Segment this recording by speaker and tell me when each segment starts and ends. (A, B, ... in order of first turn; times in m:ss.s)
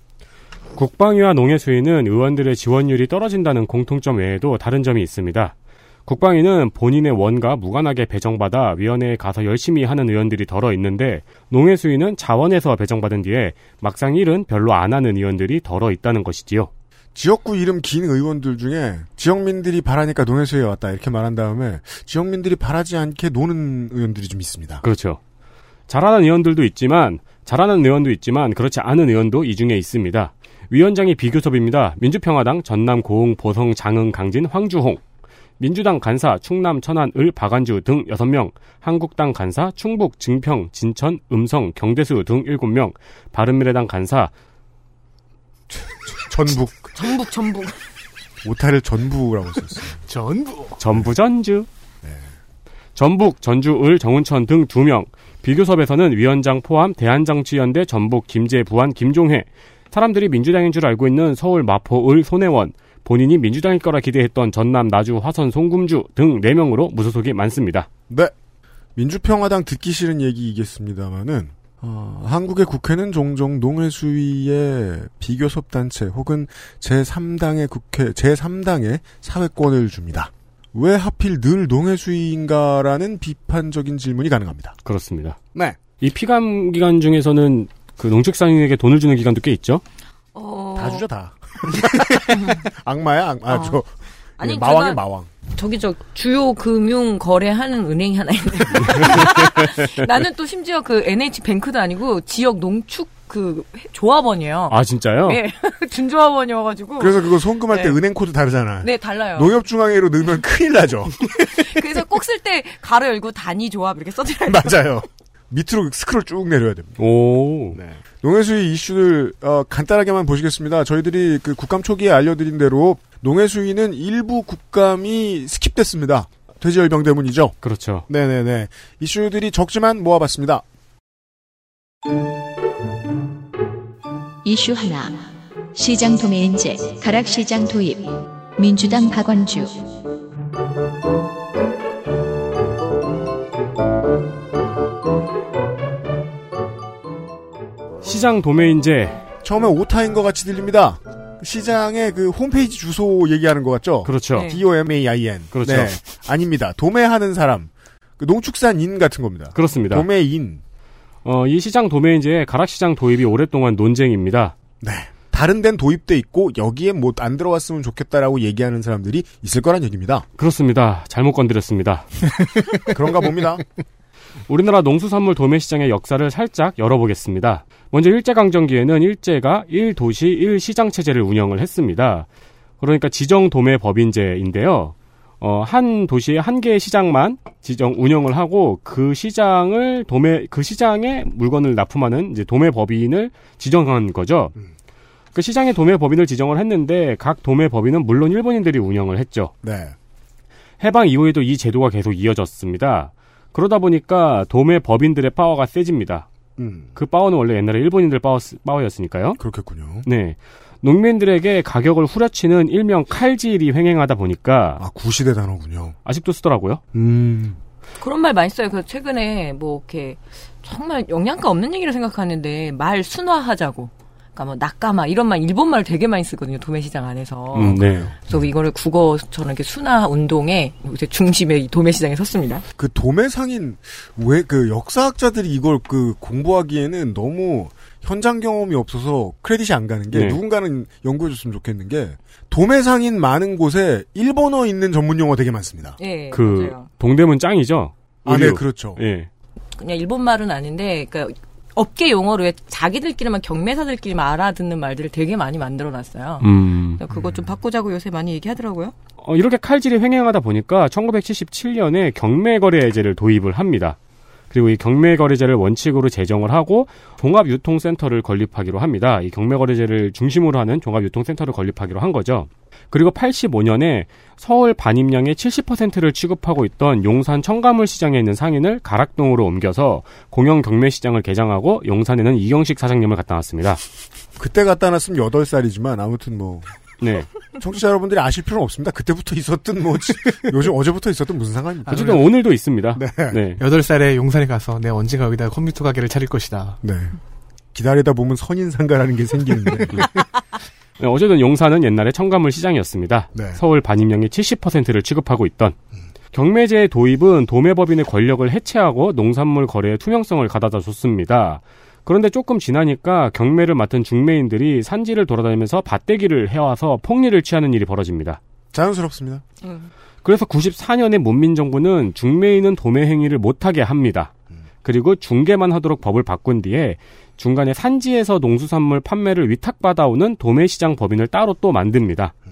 0:00.8-0:05.5 A
0:06.1-0:16.7 A
0:17.2-0:24.8 B
0:24.8-0:25.2 A
0:25.9-0:35.0 A
0:35.6-0:44.3 A
0:45.7-0:47.0 B
0:46.9-0:47.8 C
0:48.4-0:50.0 B
0:50.1-0:50.8 D
0:50.8-0:51.7 A
0:53.0-1:07.9 A
1:09.0-1:24.8 B
1:24.8-1:25.4 A
1:25.5-1:25.8 B
1:26.0-1:29.8 A
1:30.3-1:31.1 C
1:30.8-1:35.3 B
1:32.3-1:32.6 C
1:33.5-1:33.8 C
1:34.4-1:48.0 C
1:38.8-1:39.3 A
1:44.7-1:45.4 A
1:47.0-1:51.7 B
1:48.8-1:49.6 C
1:51.4-1:54.9 C
1:54.5-1:57.0 B
1:57.0-1:57.8 A
1:57.7-2:07.6 B
2:07.6-2:08.0 A
2:08.1-2:10.6 B
2:14.4-2:19.8 E
2:28.0-2:29.2 A
2:29.4-2:40.6 B
2:34.0-2:34.5 A
2:34.4-2:34.6 C
2:35.5-2:36.0 A
2:39.6-2:40.1 A
2:41.2-2:44.6 A
2:44.8-2:50.3 B
2:50.4-2:52.1 A
2:52.8-2:53.6 B
2:54.5-3:02.3 A
3:02.8-3:14.6 A
3:15.4-3:19.5 A
3:19.6-3:20.0 B
3:20.8-3:26.3 A
3:26.6-3:27.0 B
3:27.0-3:29.4 A
3:29.4-3:30.1 B
3:30.0-3:34.8 A
3:34.8-3:36.0 B
3:36.1-3:36.8 A
3:36.9-3:37.6 B
3:38.0-3:52.6 C
3:47.5-3:48.1 A
3:47.6-3:48.4 B
3:52.8-4:06.0 B
4:00.1-4:00.4 A
4:06.0-4:06.9 C
4:06.3-4:09.3 A
4:08.3-4:09.0 B
4:09.8-4:18.9 C
4:16.4-4:17.0 A
4:17.1-4:17.5 B
4:19.2-4:24.0 A
4:24.5-4:43.8 A
4:44.4-4:46.7 B
4:47.0-4:47.3 A
4:47.6-4:52.2 B
4:51.9-4:52.2 D
4:51.9-4:53.6 A
4:53.0-4:53.4 B
4:53.6-4:56.8 D
4:56.8-4:57.2 B
4:57.7-5:00.1 B
5:01.0-5:05.8 A
5:03.4-5:03.6 B
5:06.3-5:18.4 A
5:18.7-5:19.4 B
5:19.6-5:19.9 C
5:20.2-5:24.3 A
5:24.8-5:32.3 A